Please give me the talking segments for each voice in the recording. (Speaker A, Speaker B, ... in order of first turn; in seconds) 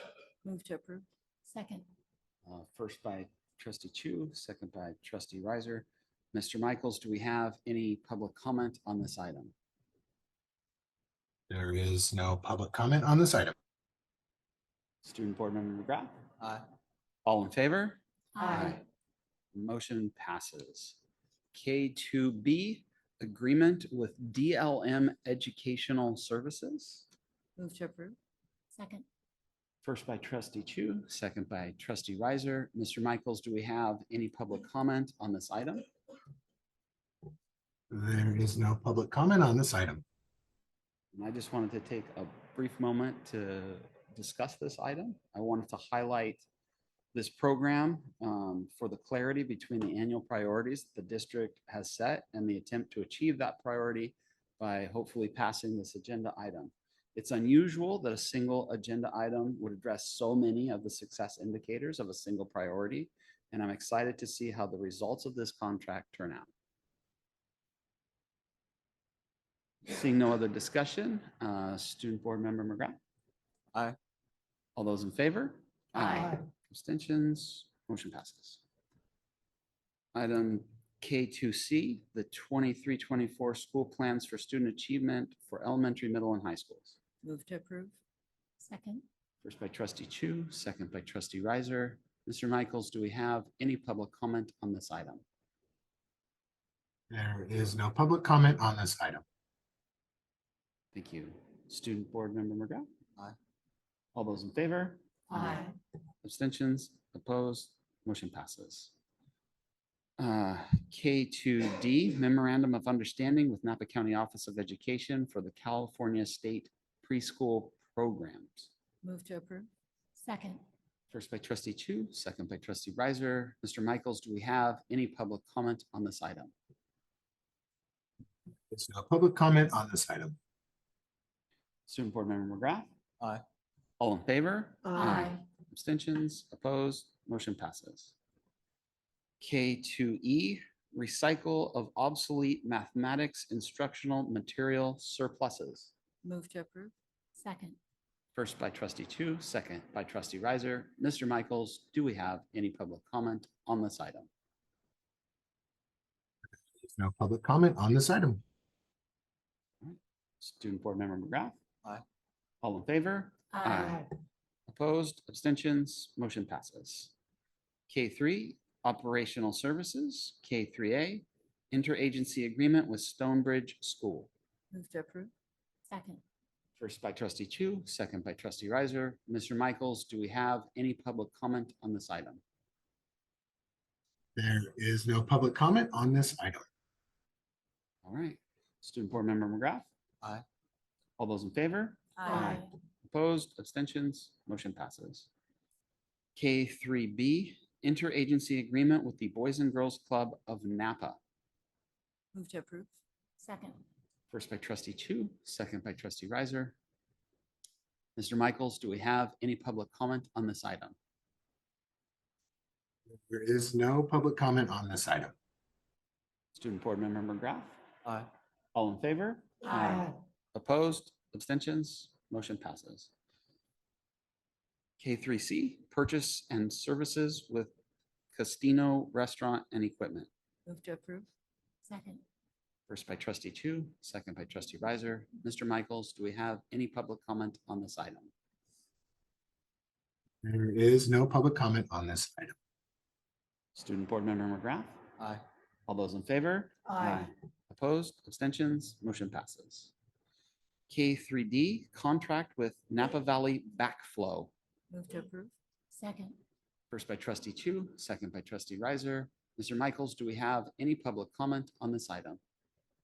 Speaker A: 0.4-1.0, 27.6-28.2, 87.2-88.0, 119.0-119.7, 146.2-146.9, 174.7-175.3, 192.2-192.6, 202.3-202.9, 230.7-231.3, 254.9-255.5
Speaker B: 1.5-1.9, 18.4-18.8, 28.7-29.1, 88.6-89.0, 120.2-120.6, 147.4-147.8, 175.9-176.2, 192.3-192.6, 203.4-203.8, 231.9-232.2, 255.9-256.4
Speaker C: 2.4-9.5, 15.0-16.2, 17.2-18.8, 19.5-21.0, 21.5-27.1, 29.8-35.9, 41.1-46.5, 47.1-66.5, 69.8-73.0, 74.8-78.6, 80.1-87.0, 89.4-95.2, 100.9-102.9, 104.1-105.7, 106.2-108.9, 110.2-118.7, 121.1-126.5, 131.9-132.9, 134.0-138.1, 139.4-145.9, 148.3-154.3, 159.8-161.6, 162.6-164.1, 164.7-167.1, 167.9-174.3, 176.8-182.4, 188.0-189.9, 191.2-195.3, 196.3-201.2, 204.3-206.8, 208.2-210.9, 216.5-217.8, 218.7-223.1, 225.0-227.7, 228.3-230.3, 232.9-238.3, 243.7-245.0, 245.9-249.9, 250.9-254.5, 256.9-262.4
Speaker D: 11.5-13.5, 37.9-40.0, 97.1-99.2, 128.7-130.3, 156.8-158.4, 184.3-186.6, 213.3-215.3, 240.4-242.5